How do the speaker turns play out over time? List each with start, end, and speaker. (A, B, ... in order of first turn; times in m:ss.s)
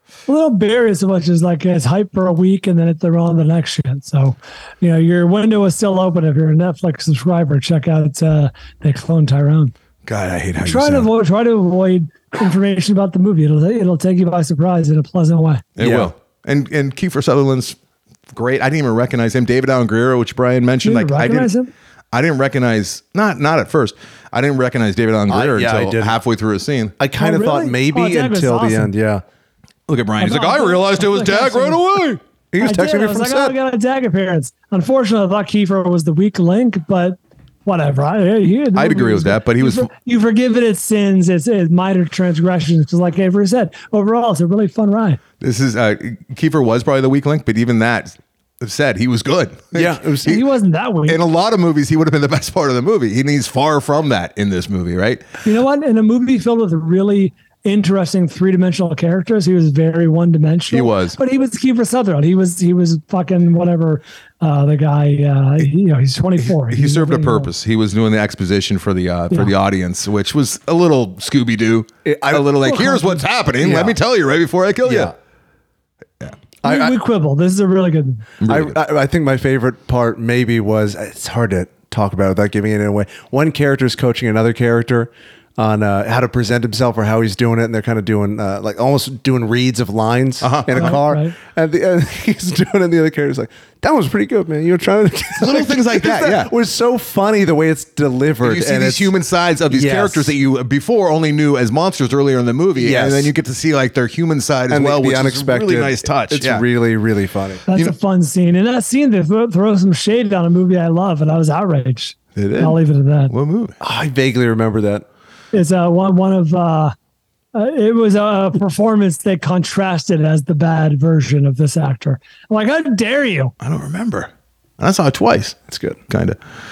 0:00.3-0:09.7 A
0:10.0-0:11.1 B
0:10.6-0:15.6 A
0:15.8-0:17.8 B
0:15.8-0:16.1 C
0:18.3-0:21.5 B
0:20.8-0:21.7 A
0:22.1-0:26.9 B
0:25.3-0:26.2 C
0:27.0-0:29.2 C
0:27.2-0:28.9 A
0:29.9-0:32.2 B
0:30.2-0:31.8 A
0:32.5-0:33.6 C
0:32.6-0:45.2 A
0:38.7-0:39.9 B
0:45.4-0:50.4 B
0:49.7-0:50.4 C
0:50.2-0:51.2 A
0:51.1-0:55.2 B
0:55.4-1:07.5 A
1:00.7-1:01.2 B
1:06.4-1:15.1 B
1:12.0-1:12.9 C
1:12.7-1:13.2 A
1:13.6-1:14.0 C
1:14.8-1:15.1 C
1:16.6-1:16.9 C
1:16.6-1:18.2 A
1:18.4-1:18.8 B
1:18.5-1:39.1 C
1:30.4-1:31.0 B
1:30.8-1:31.3 A
1:35.4-1:36.5 B
1:38.4-1:46.6 B
1:39.7-1:40.3 C
1:42.8-1:43.3 C
1:44.7-1:47.6 C
1:47.7-1:53.3 A
1:52.4-1:52.8 B
1:53.3-1:53.8 B
1:53.8-1:55.0 C
1:55.5-1:56.9 A
1:57.5-2:03.5 A
2:03.6-2:06.4 B
2:05.7-2:06.0 C